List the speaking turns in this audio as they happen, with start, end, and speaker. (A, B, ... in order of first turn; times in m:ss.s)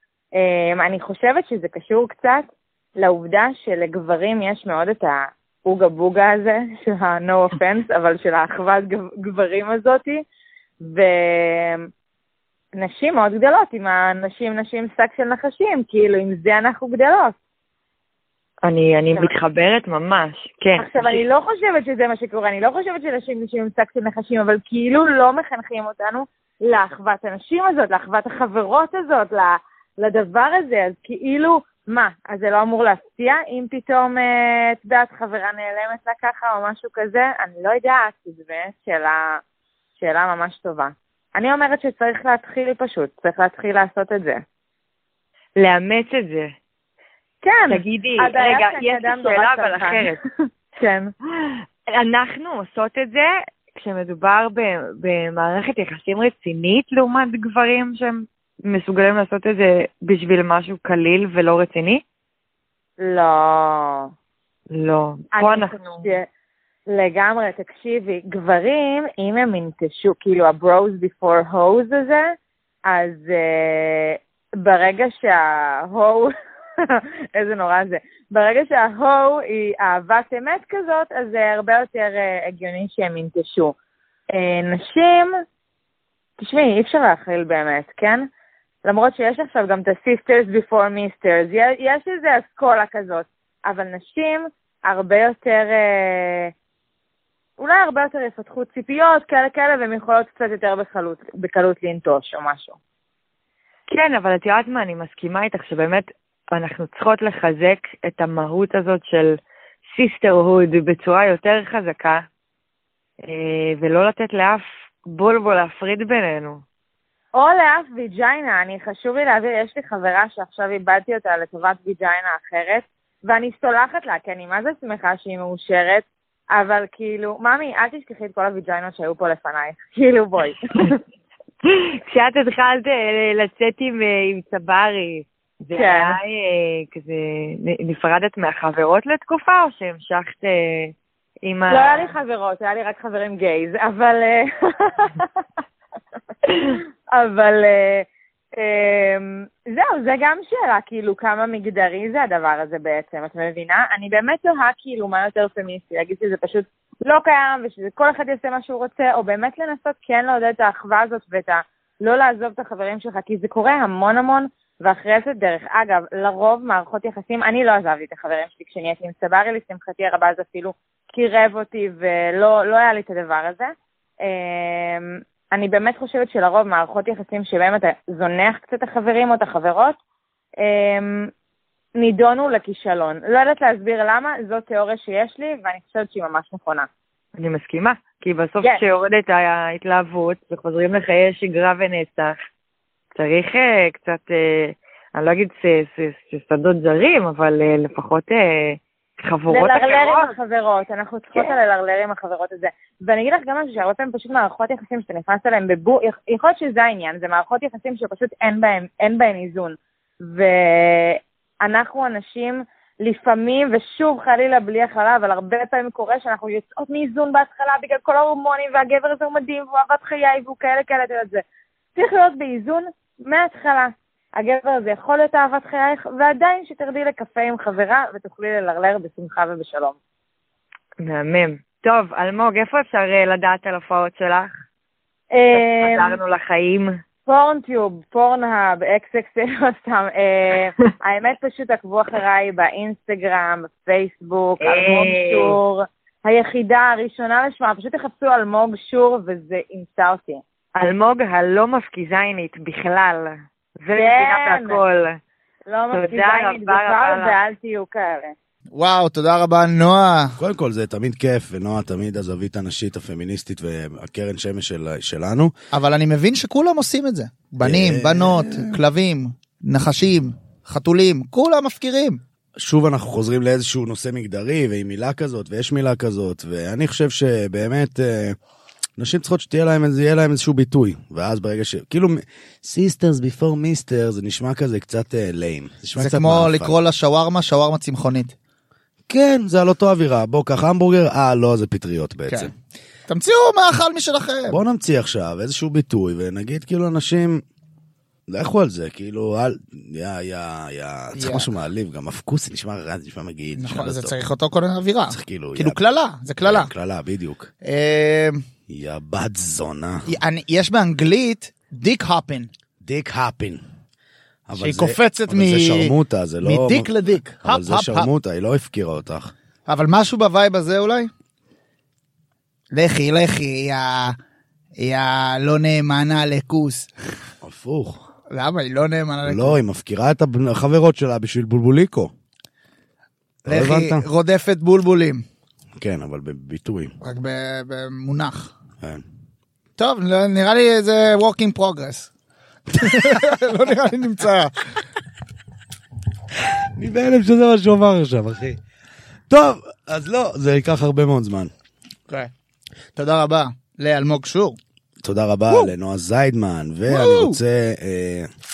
0:00.3-0:10.2 A
0:10.8-0:11.9 A
0:12.8-0:17.3 A
0:18.6-0:21.2 B
0:20.8-0:39.4 A
0:40.0-0:44.4 A
0:45.6-0:46.5 B
0:47.4-0:50.2 A
0:47.7-0:50.2 B
0:50.8-0:51.1 A
0:51.9-1:02.0 B
1:03.0-1:04.1 A
1:04.7-1:06.1 B
1:05.3-1:06.3 A
1:06.9-1:12.3 A
1:12.9-1:16.3 A
1:16.9-1:23.7 A
1:24.3-1:25.3 A
1:26.4-1:28.3 A
1:28.8-1:36.5 A
1:37.6-1:42.8 A
1:43.9-1:49.3 B
1:49.9-1:52.2 B
1:53.2-1:56.6 B
1:57.3-2:11.0 A
2:11.7-2:22.2 B
2:15.8-2:16.2 A
2:21.7-2:25.3 A
2:26.6-3:00.0 A
3:00.6-3:01.3 A
3:02.0-3:06.9 A
3:07.4-3:12.4 B
3:13.2-3:20.3 B
3:19.5-3:41.4 A
3:41.9-3:50.0 A
3:51.0-3:54.5 B
3:55.3-3:56.2 A
3:55.5-3:57.0 B
3:57.2-4:10.4 A
4:04.6-4:05.6 B
4:10.8-4:15.2 B
4:13.9-4:14.8 A
4:15.7-4:18.3 A
4:15.9-4:17.4 B
4:18.7-4:20.4 C
4:20.4-4:25.5 D
4:25.7-4:32.2 C
4:27.6-4:28.8 D
4:32.6-4:38.4 D
4:39.0-4:46.8 D
4:45.9-4:48.3 C
4:49.1-4:52.5 D
4:53.1-4:54.6 C
4:54.5-4:57.4 D
4:58.3-5:04.2 D
5:01.2-5:01.4 C
5:03.6-5:06.7 C
5:05.1-5:05.8 D
5:06.4-5:07.5 D
5:07.6-5:08.4 C
5:08.7-5:10.1 D
5:10.1-5:12.5 C
5:12.8-5:13.6 D
5:14.5-5:19.3 D
5:14.6-5:18.1 C
5:19.7-5:21.1 C
5:22.7-5:24.2 C
5:24.8-5:26.9 C
5:27.4-5:28.0 D
5:28.3-5:29.6 C
5:29.2-5:32.1 D
5:33.4-5:35.2 C
5:33.5-5:34.1 D
5:35.8-5:36.9 D
5:37.0-5:38.5 C
5:39.8-5:42.1 C
5:42.7-5:44.6 C
5:46.7-5:48.6 D
5:49.3-5:51.5 D
5:53.0-5:54.6 C
5:55.0-5:58.3 D
5:56.9-5:57.4 C